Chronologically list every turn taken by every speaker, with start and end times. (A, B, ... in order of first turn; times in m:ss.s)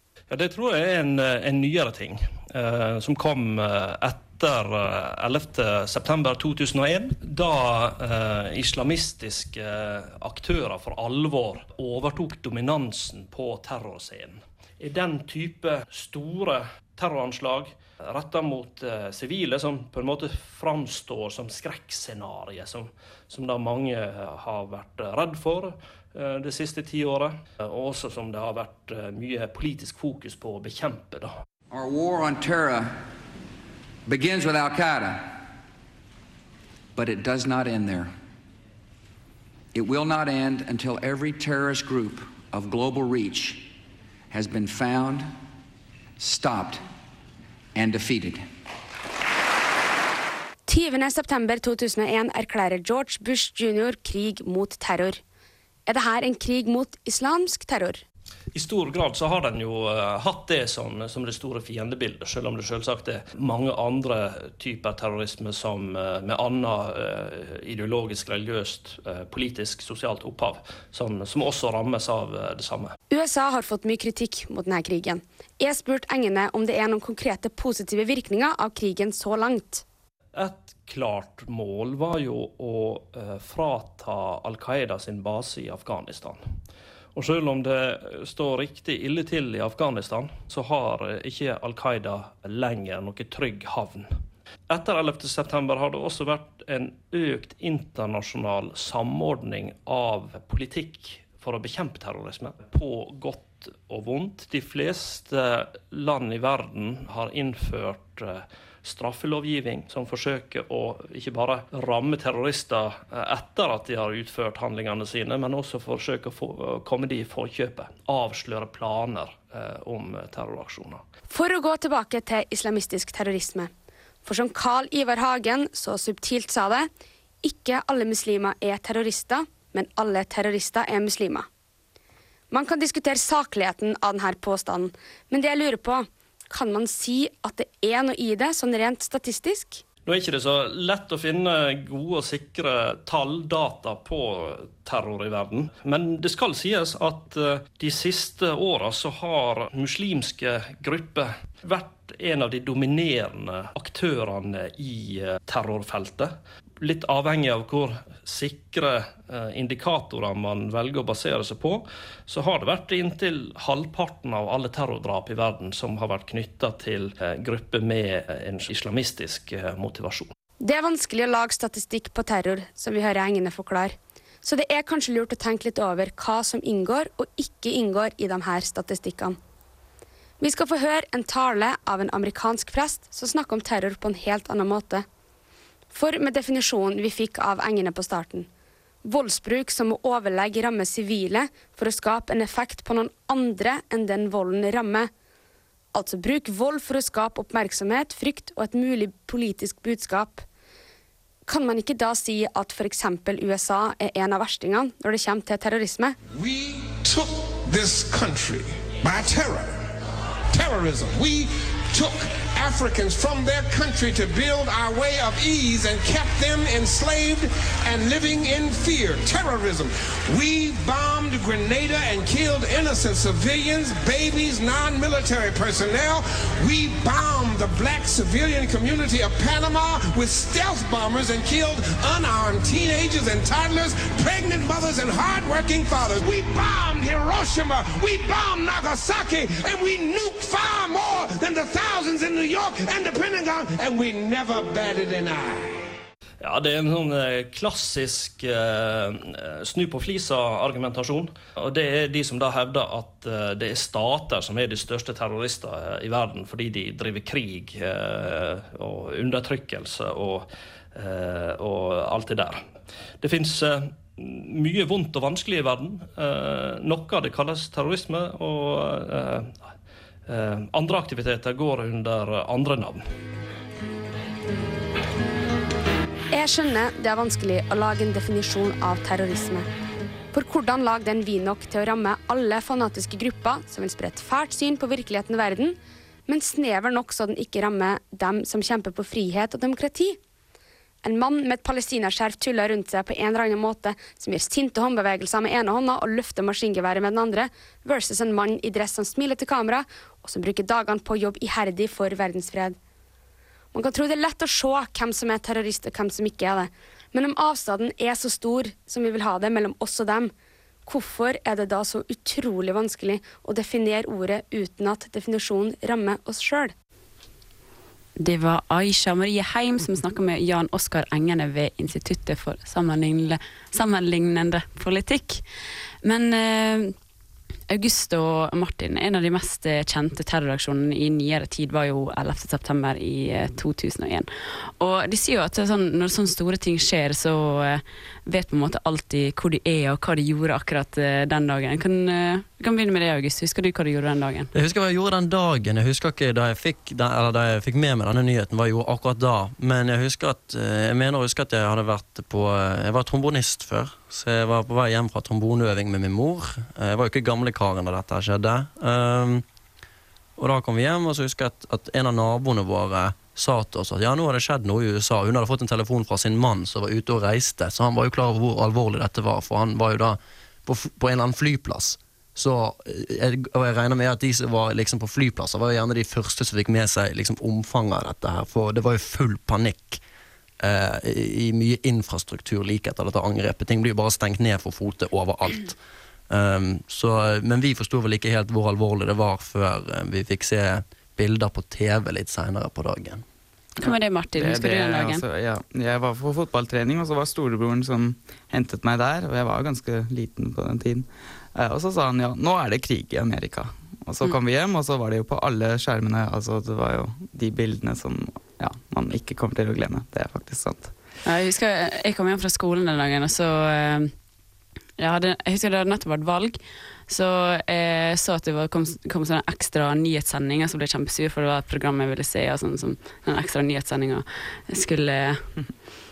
0:00.3-0:31.4 A
0:31.7-0:33.0 B
0:34.0-0:35.4 B
0:37.0-0:38.1 B
0:39.7-0:43.7 B
0:44.3-0:45.3 B
0:46.2-0:46.8 B
0:47.7-0:48.4 B
0:50.7-0:55.2 C
0:55.8-0:58.0 C
0:58.5-1:12.9 A
1:13.1-1:19.8 C
1:20.3-1:26.4 A
1:27.1-1:34.1 A
1:34.7-2:01.0 A
2:01.3-2:03.7 C
2:04.2-2:06.9 C
2:07.4-2:11.5 C
2:12.5-2:19.8 C
2:20.0-2:50.3 A
2:50.6-2:59.4 C
3:00.4-3:05.0 C
3:05.9-3:08.5 C
3:09.0-3:15.1 C
3:15.9-3:20.4 C
3:21.4-3:26.2 C
3:26.3-3:29.8 D
3:30.5-4:05.8 D
4:06.4-4:22.6 A
4:23.2-4:29.7 A
4:30.3-4:33.0 A
4:36.3-4:39.6 C
4:40.3-4:45.8 C
4:46.3-4:50.2 C
4:51.0-5:02.8 C
5:03.7-5:10.3 C
5:10.8-5:16.7 C
5:18.2-5:25.4 E
5:26.0-5:26.9 E
5:27.7-5:44.5 E
5:44.5-5:59.4 F
6:00.4-6:20.0 F
6:20.6-6:25.8 F
6:26.3-6:33.2 F
6:33.8-6:35.2 E
6:33.8-6:50.9 G
6:51.2-6:54.1 E
6:55.0-7:05.4 E